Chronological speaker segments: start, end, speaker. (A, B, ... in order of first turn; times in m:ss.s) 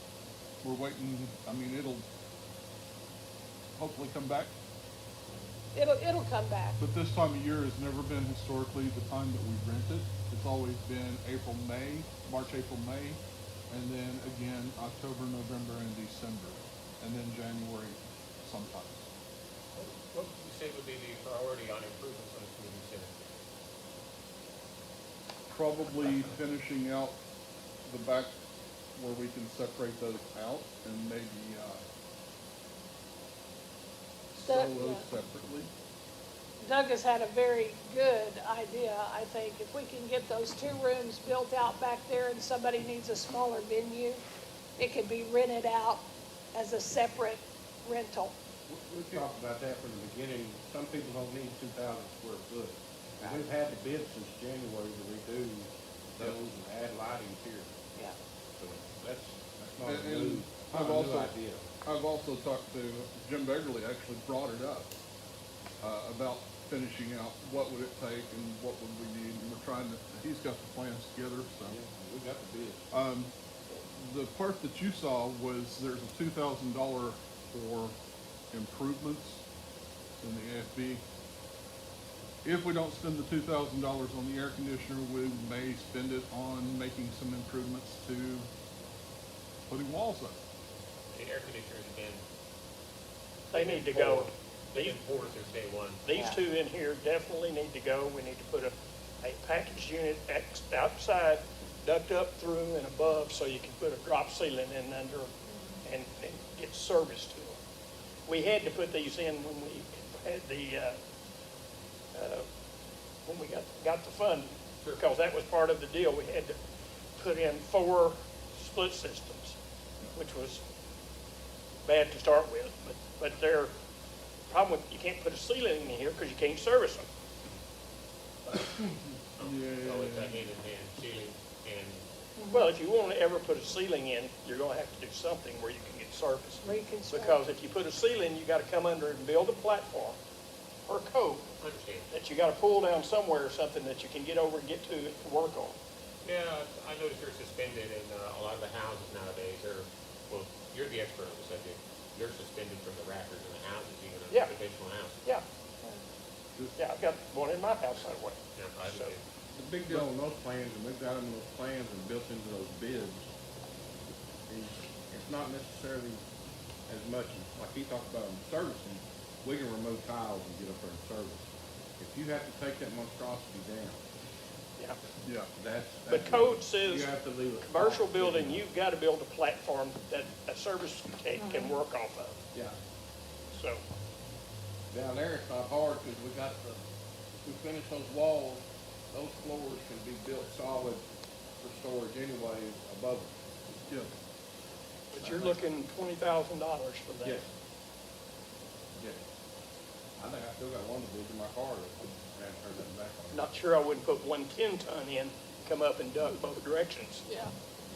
0:00.6-0:02.1 A
0:03.8-0:04.5 A
0:05.7-0:06.8 B
0:06.8-0:19.1 A
0:19.8-0:23.1 C
0:25.5-0:27.2 A
0:27.9-0:28.3 A
0:29.0-0:31.8 A
0:34.3-0:35.7 A
0:34.4-0:35.0 B
0:36.6-0:44.2 B
0:44.8-0:48.3 B
0:48.7-0:57.8 D
0:58.6-1:01.7 D
0:59.8-1:01.3 A
1:01.8-1:04.9 A
1:05.8-1:11.8 A
1:11.7-1:12.9 D
1:12.9-1:18.0 A
1:18.5-1:19.4 A
1:20.2-1:21.0 A
1:22.4-1:28.5 A
1:29.7-1:30.4 A
1:31.1-1:32.2 C
1:33.5-1:35.0 E
1:33.5-1:36.1 C
1:36.0-1:45.3 E
1:36.1-1:36.4 B
1:45.8-1:47.6 E
1:48.3-1:51.0 E
1:52.1-1:52.4 E
1:53.2-1:56.6 E
1:57.2-1:59.6 E
2:00.1-2:00.6 E
2:01.9-2:03.7 E
2:04.5-2:07.1 E
2:09.4-2:12.1 C
2:09.4-2:10.5 A
2:12.4-2:12.7 B
2:12.5-2:20.2 E
2:16.6-2:17.4 B
2:20.8-2:21.5 E
2:21.6-2:22.1 C
2:22.1-2:25.8 E
2:26.2-2:35.2 C
2:34.3-2:34.5 E
2:36.8-2:39.2 E
2:38.5-2:39.2 C
2:39.5-2:43.3 D
2:44.5-2:46.2 D
2:46.9-2:51.5 D
2:52.0-2:54.0 D
2:55.2-2:55.5 A
2:55.6-2:58.6 D
2:56.1-2:57.1 E
2:57.7-3:02.4 E
3:01.4-3:01.8 B
3:03.5-3:03.8 E
3:04.9-3:06.8 D
3:07.4-3:11.0 D
3:11.6-3:13.3 D
3:15.1-3:17.4 E
3:15.2-3:15.7 D
3:17.2-3:17.5 D
3:20.2-3:23.5 D
3:23.3-3:27.3 E
3:27.3-3:27.5 B